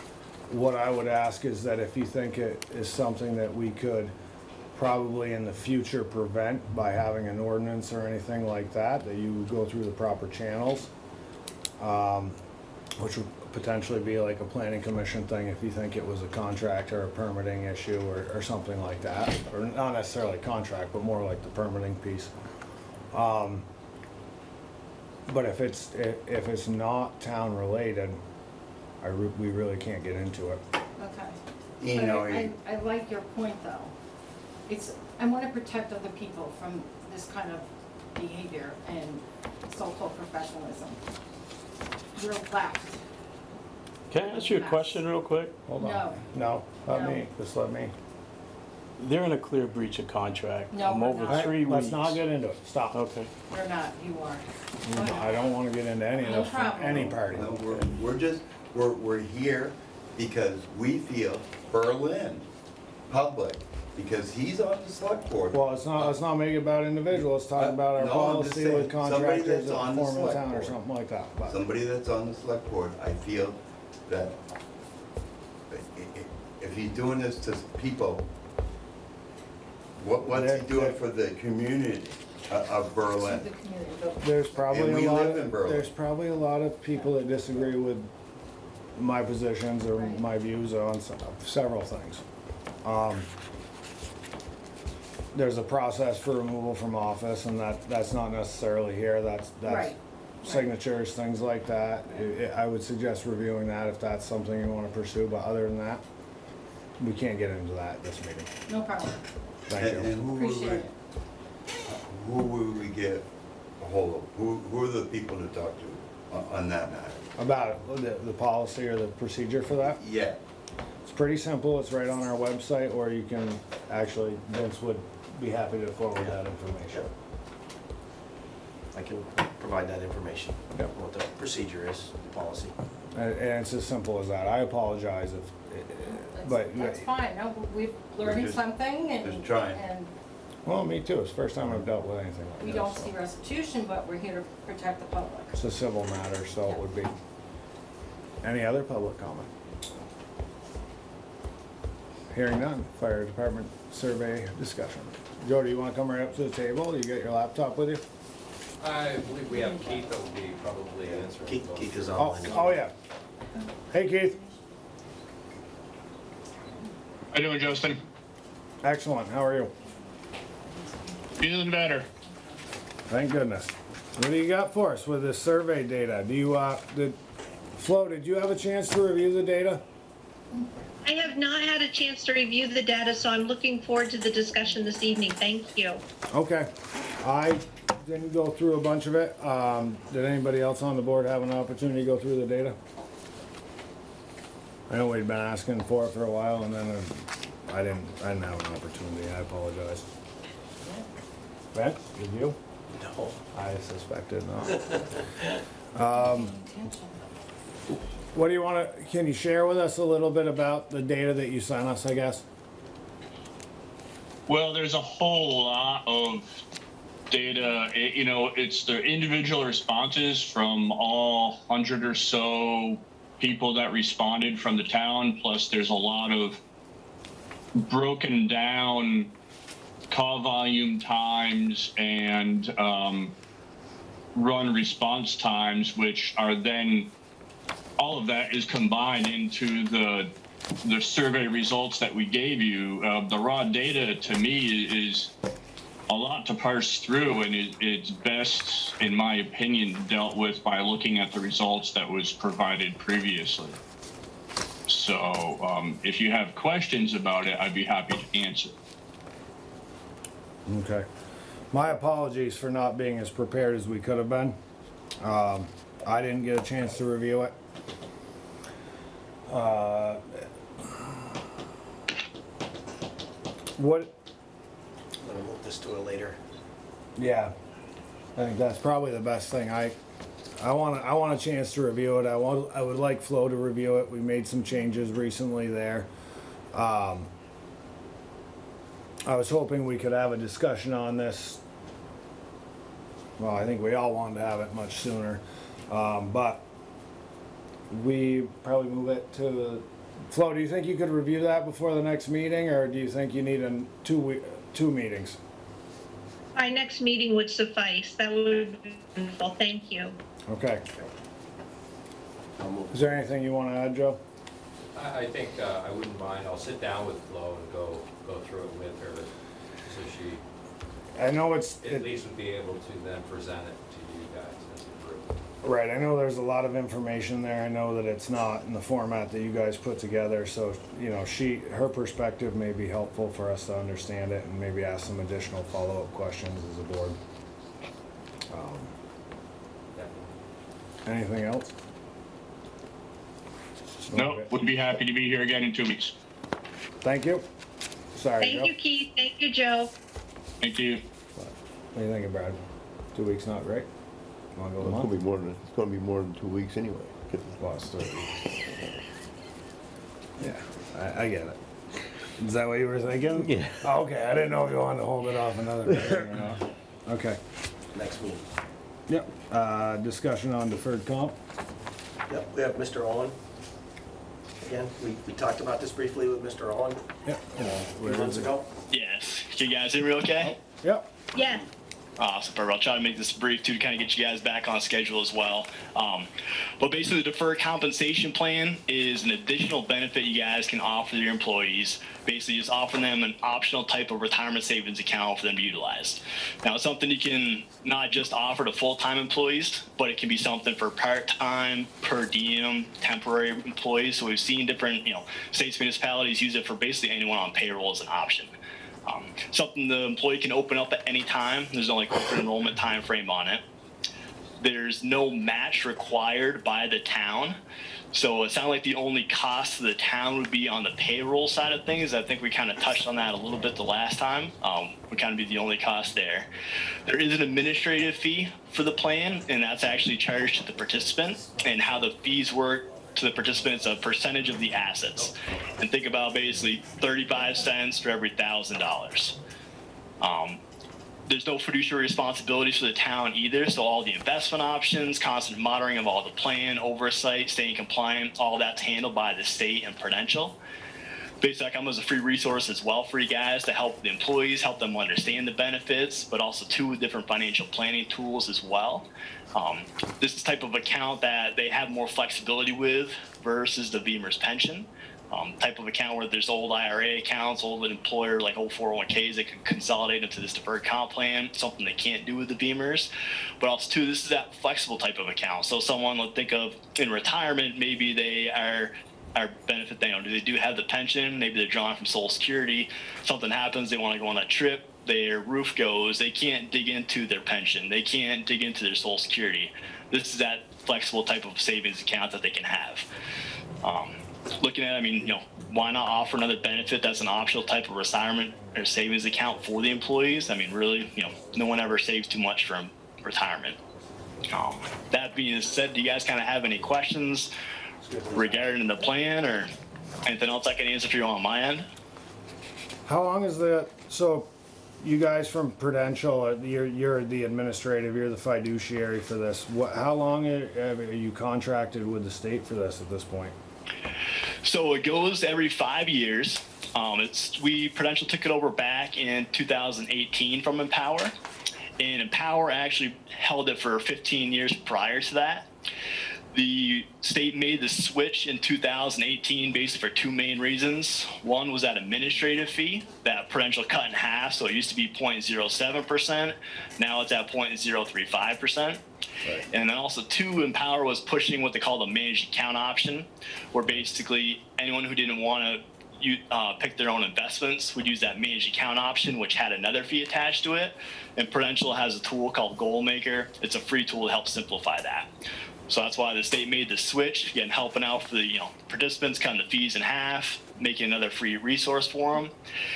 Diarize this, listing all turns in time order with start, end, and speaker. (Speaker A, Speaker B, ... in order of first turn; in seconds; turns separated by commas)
Speaker A: 0.5-4.1, Speaker A: 4.7-10.9, Speaker A: 11.8-12.4, Speaker A: 13.0-22.3, Speaker A: 23.1-23.6, Speaker A: 25.3-28.2, Speaker A: 29.0-30.6, Speaker B: 31.0-31.4, Speaker C: 31.8-32.5, Speaker B: 31.9-33.9, Speaker B: 34.7-41.0, Speaker B: 42.1-43.0, Speaker D: 44.1-45.5, Speaker B: 44.1-45.0, Speaker A: 45.7-47.9, Speaker B: 45.8-46.2, Speaker B: 46.8-47.2, Speaker D: 49.0-52.2, Speaker B: 50.7-51.6, Speaker A: 51.2-53.0, Speaker D: 52.9-53.3, Speaker B: 53.5-55.4, Speaker A: 54.8-57.5, Speaker B: 56.1-57.2, Speaker C: 56.9-62.5, Speaker C: 63.1-66.1, Speaker A: 65.5-71.6, Speaker C: 67.5-70.8, Speaker C: 71.4-74.3, Speaker C: 75.7-78.2, Speaker C: 80.0-83.5, Speaker A: 80.3-81.0, Speaker B: 83.0-85.0, Speaker A: 84.2-88.1, Speaker C: 84.7-85.9, Speaker A: 89.0-92.2, Speaker B: 89.9-90.2, Speaker A: 92.8-93.3, Speaker A: 95.3-106.0, Speaker B: 99.6-100.7, Speaker A: 107.0-108.5, Speaker B: 108.7-109.2, Speaker A: 109.7-110.1, Speaker C: 109.7-110.9, Speaker B: 110.2-110.9, Speaker C: 111.8-113.2, Speaker C: 113.8-117.2, Speaker A: 117.4-120.0, Speaker C: 119.9-120.4, Speaker A: 121.0-127.1, Speaker E: 128.9-132.7, Speaker A: 133.1-137.1, Speaker B: 136.2-140.1, Speaker C: 138.2-139.8, Speaker A: 140.6-143.1, Speaker B: 142.6-145.5, Speaker A: 145.5-147.1, Speaker A: 148.4-149.5, Speaker A: 152.3-158.0, Speaker F: 158.8-162.7, Speaker B: 159.5-160.1, Speaker E: 161.1-162.9, Speaker A: 162.2-162.9, Speaker A: 163.9-164.4, Speaker G: 167.3-168.0, Speaker A: 168.8-169.7, Speaker G: 171.4-172.1, Speaker A: 173.1-177.2, Speaker A: 177.8-179.8, Speaker H: 181.1-186.0, Speaker A: 186.3-192.8, Speaker A: 194.9-200.1, Speaker A: 201.7-202.6, Speaker E: 202.9-203.3, Speaker A: 203.5-205.0, Speaker A: 205.9-206.5, Speaker B: 206.1-207.1, Speaker A: 208.3-212.4, Speaker G: 214.5-216.6, Speaker G: 217.3-226.6, Speaker G: 227.8-229.3, Speaker G: 230.1-233.3, Speaker G: 234.3-237.1, Speaker G: 238.0-240.3, Speaker G: 240.8-245.3, Speaker G: 246.1-253.8, Speaker G: 254.9-258.7, Speaker A: 260.6-261.1, Speaker A: 261.7-264.6, Speaker A: 265.2-267.5, Speaker A: 269.5-270.4, Speaker A: 273.8-274.1, Speaker E: 275.2-276.4, Speaker A: 277.1-277.5, Speaker A: 278.4-280.0, Speaker A: 280.6-286.1, Speaker A: 286.7-287.3, Speaker A: 289.2-291.6, Speaker A: 293.4-296.6, Speaker A: 297.9-305.4, Speaker H: 306.6-310.1, Speaker A: 310.5-310.8, Speaker E: 312.6-313.2, Speaker A: 312.9-314.2, Speaker F: 314.9-319.3, Speaker F: 319.8-320.4, Speaker A: 321.1-322.1, Speaker F: 321.8-325.4, Speaker A: 325.6-337.2, Speaker A: 338.5-338.9, Speaker F: 339.9-340.3, Speaker A: 341.0-341.7, Speaker A: 344.0-344.5, Speaker G: 344.1-346.1, Speaker A: 347.0-347.4, Speaker A: 348.1-348.7, Speaker H: 348.4-349.9, Speaker G: 350.6-351.0, Speaker A: 351.4-352.6, Speaker A: 353.1-353.9, Speaker A: 354.5-355.1, Speaker I: 354.8-357.4, Speaker A: 357.6-358.4, Speaker A: 360.4-361.6, Speaker A: 362.4-367.4, Speaker E: 367.9-368.5, Speaker A: 369.1-371.4, Speaker E: 372.3-373.3, Speaker E: 374.6-377.0, Speaker A: 377.2-378.5, Speaker E: 377.6-378.6, Speaker J: 378.9-380.5, Speaker A: 380.4-381.1, Speaker H: 381.3-381.6, Speaker J: 382.2-386.3, Speaker J: 386.8-408.5, Speaker J: 409.1-413.6, Speaker J: 414.6-417.6, Speaker J: 418.1-426.5, Speaker J: 427.0-439.3, Speaker J: 440.2-440.6, Speaker J: 441.3-450.6, Speaker J: 451.4-493.1, Speaker J: 493.8-503.8, Speaker J: 504.5-507.5, Speaker A: 508.0-508.8, Speaker J: 508.3-509.7, Speaker J: 510.2-511.9, Speaker A: 513.0-514.5, Speaker A: 515.0-523.5, Speaker J: 524.6-531.3, Speaker J: 532.0-535.7, Speaker J: 536.5-549.0, Speaker J: 549.7-565.3, Speaker J: 565.9-572.5